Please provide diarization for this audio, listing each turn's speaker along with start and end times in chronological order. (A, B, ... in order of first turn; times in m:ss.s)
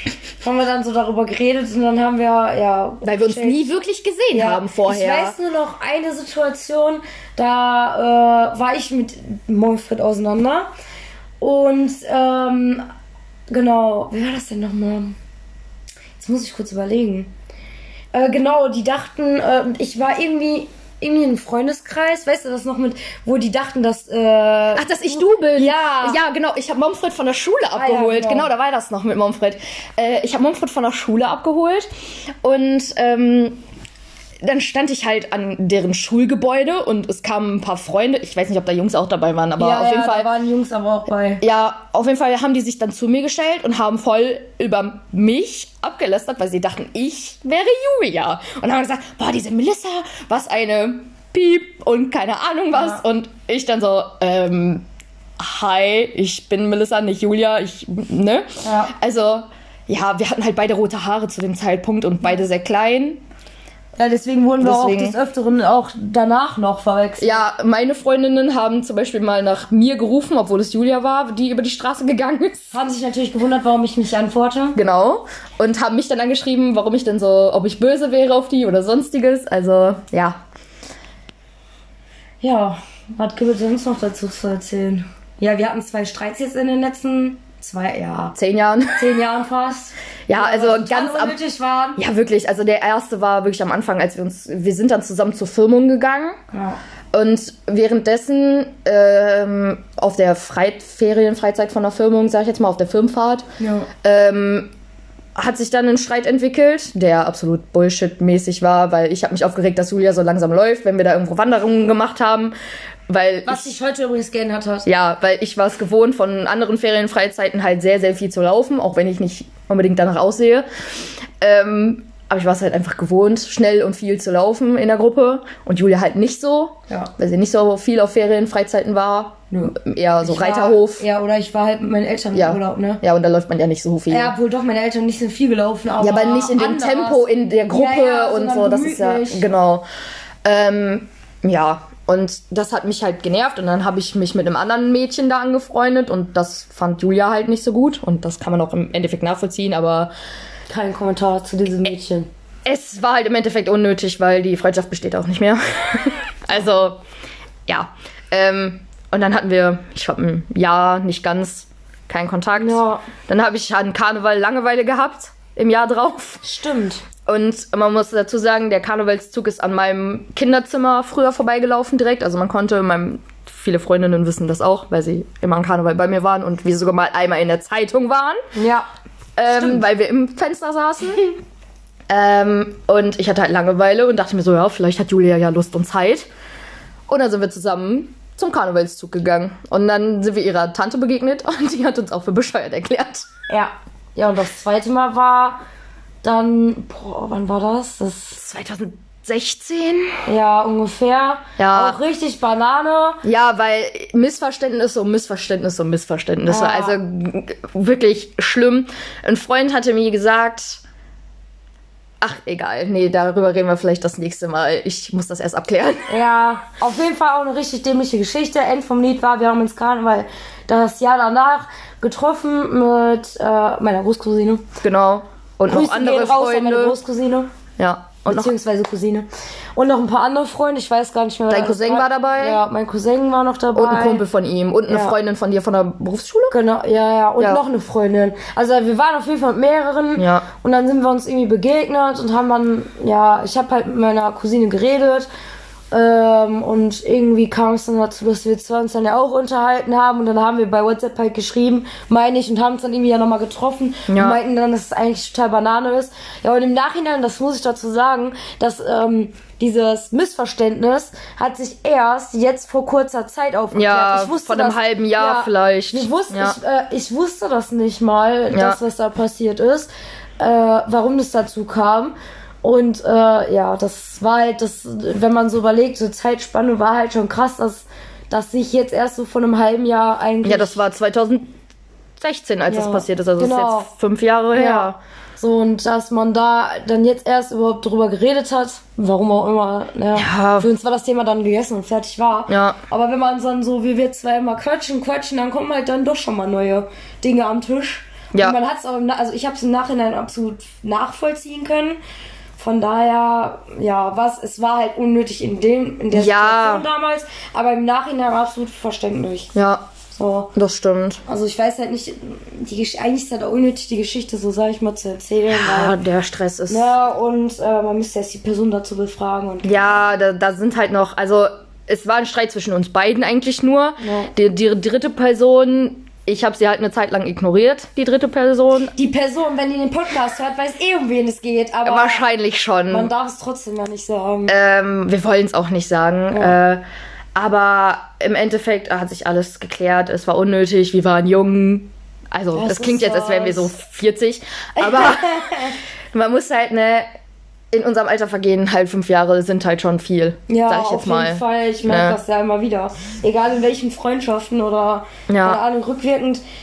0:00.4-0:03.6 A
0:03.0-0:05.3 B
0:04.3-0:10.7 A
0:11.4-0:12.8 A
0:13.5-0:15.2 A
0:16.2-0:17.3 A
0:18.1-0:26.2 A
0:24.8-0:31.9 B
0:27.8-0:28.5 A
0:32.4-0:33.6 B
0:34.4-0:40.3 B
0:39.6-0:41.4 A
0:41.4-0:54.8 B
0:55.4-1:03.2 B
0:58.6-0:58.9 A
1:04.0-1:07.4 A
1:04.6-1:05.2 B
1:07.2-1:12.8 B
1:12.7-1:14.8 A
1:14.7-1:20.4 B
1:22.4-1:28.3 A
1:28.3-1:29.1 B
1:29.0-1:32.0 A
1:30.3-1:31.4 B
1:32.0-1:36.4 B
1:36.5-1:36.8 A
1:37.1-1:43.4 B
1:43.6-1:43.9 A
1:44.0-1:44.7 B
1:45.4-1:52.5 B
1:53.1-1:53.8 B
1:53.4-1:54.9 A
1:54.8-2:00.7 B
2:01.4-2:11.0 B
2:09.5-2:13.0 A
2:12.3-2:14.3 B
2:14.1-2:19.5 A
2:16.0-2:19.8 B
2:20.4-2:30.1 B
2:30.7-2:32.3 A
2:32.6-2:37.0 B
2:37.7-2:46.5 B
2:42.6-2:43.0 A
2:46.4-2:47.0 A
2:47.2-2:58.4 B
2:58.5-2:58.9 A
2:59.4-3:01.3 B
2:59.5-2:59.8 A
3:02.1-3:06.3 B
3:07.1-3:13.3 B
3:13.5-3:15.6 A
3:16.2-3:18.4 A
3:18.3-3:20.2 B
3:20.2-3:23.2 A
3:21.6-3:22.0 B
3:23.2-3:30.8 B
3:26.5-3:27.0 A
3:32.2-3:36.1 B
3:36.1-3:44.6 A
3:44.8-3:47.0 B
3:45.7-3:47.5 A
3:47.8-3:48.5 B
3:48.2-3:54.2 A
3:51.5-3:52.6 B
3:53.7-3:56.6 B
3:54.9-3:55.2 A
3:56.5-4:05.3 A
4:00.2-4:00.4 B
4:05.9-4:40.8 A
4:14.1-4:14.4 B
4:23.7-4:26.6 B
4:28.5-4:28.8 B
4:40.4-4:41.5 B
4:42.2-4:45.0 B
4:42.7-4:43.9 A
4:44.5-5:02.0 A
4:50.1-4:50.7 B
4:52.5-4:52.8 B
5:02.6-5:09.5 A
5:06.1-5:06.8 B
5:09.5-5:09.8 B
5:10.1-5:10.5 A
5:10.5-5:11.2 B
5:11.3-5:16.0 A
5:15.5-5:16.9 B
5:16.7-5:20.0 A
5:19.6-5:28.9 B
5:24.0-5:24.3 A
5:29.0-5:32.2 A
5:31.8-5:33.1 B
5:32.9-5:34.6 A
5:34.5-5:36.8 B
5:37.3-5:47.1 B
5:42.5-5:43.7 A
5:44.8-5:45.8 A
5:47.7-5:52.2 B
5:50.5-5:56.4 A
5:55.3-5:55.6 B